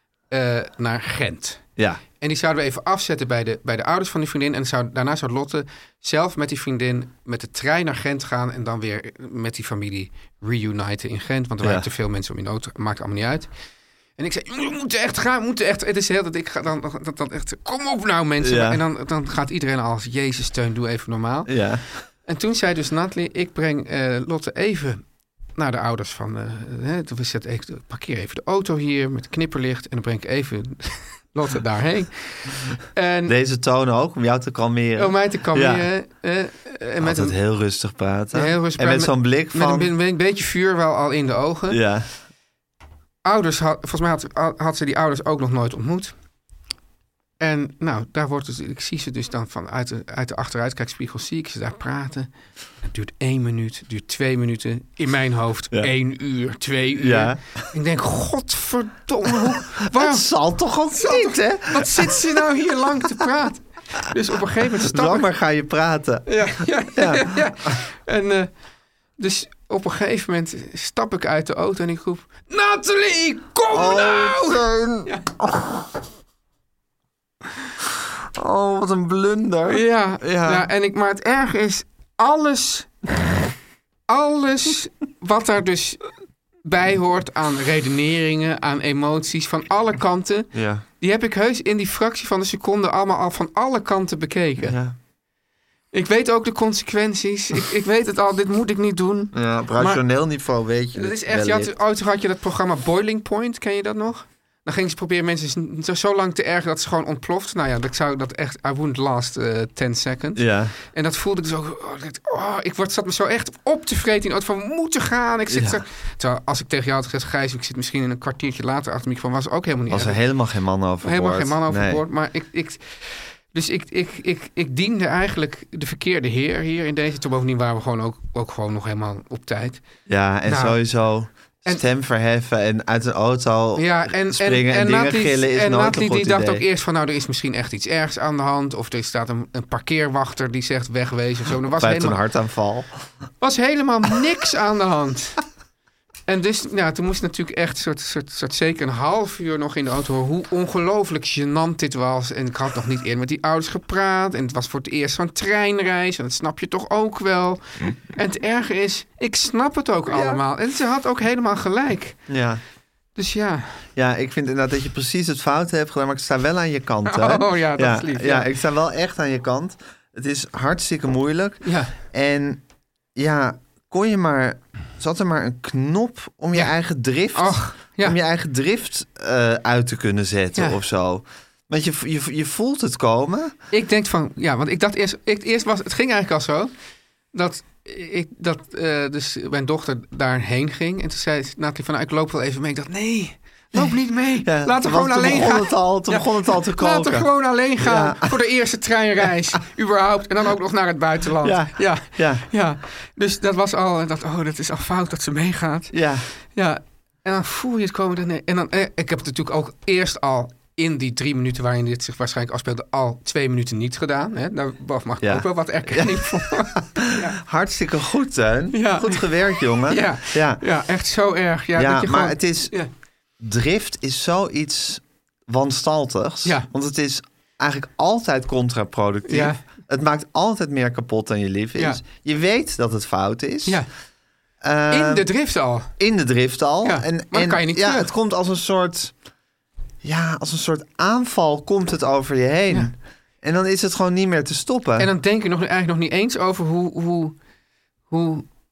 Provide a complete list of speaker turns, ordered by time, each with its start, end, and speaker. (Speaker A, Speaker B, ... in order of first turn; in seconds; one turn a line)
Speaker A: 0.3-13.5
Speaker B: 11.6-11.8
Speaker A: 14.2-33.3
Speaker B: 18.4-18.8
Speaker B: 21.4-22.0
Speaker B: 33.2-35.9
Speaker A: 35.0-37.4
Speaker B: 37.0-39.9
Speaker A: 38.3-41.8
Speaker B: 41.7-42.1
Speaker A: 43.2-46.1
Speaker A: 47.4-65.3
Speaker B: 57.0-57.6
Speaker B: 59.9-62.4
Speaker B: 64.8-67.7
Speaker A: 66.3-68.6
Speaker A: 69.2-75.2
Speaker B: 73.7-75.8
Speaker B: 78.3-80.7
Speaker A: 79.7-82.9
Speaker A: 84.1-86.1
Speaker A: 86.6-94.8
Speaker B: 90.5-90.8
Speaker B: 94.6-95.0
Speaker A: 95.9-100.3
Speaker B: 99.3-101.7
Speaker A: 100.9-120.2
Speaker B: 110.3-110.7
Speaker B: 115.5-115.8
Speaker B: 119.9-122.0
Speaker A: 121.0-131.8
Speaker B: 130.1-136.6
Speaker A: 133.7-142.2
Speaker B: 141.7-142.9
Speaker A: 143.4-145.4
Speaker A: 146.3-162.3
Speaker B: 160.1-160.4
Speaker B: 162.3-162.6
Speaker A: 163.2-163.8
Speaker B: 163.9-172.6
Speaker A: 167.1-168.5
Speaker A: 171.6-171.9
Speaker B: 173.1-183.5
Speaker A: 177.3-178.2
Speaker A: 183.7-186.7
Speaker A: 187.3-217.4
Speaker B: 193.7-198.4
Speaker B: 201.4-202.4
Speaker B: 205.9-206.3
Speaker B: 215.2-220.6
Speaker A: 218.7-219.3
Speaker A: 219.9-222.9
Speaker B: 221.8-222.8
Speaker B: 223.4-233.8
Speaker A: 229.3-229.6
Speaker A: 231.8-232.0
Speaker B: 234.6-235.3
Speaker A: 234.9-235.9
Speaker B: 236.0-239.2
Speaker A: 236.8-238.1
Speaker B: 240.0-245.1
Speaker A: 245.0-247.4
Speaker A: 248.1-248.5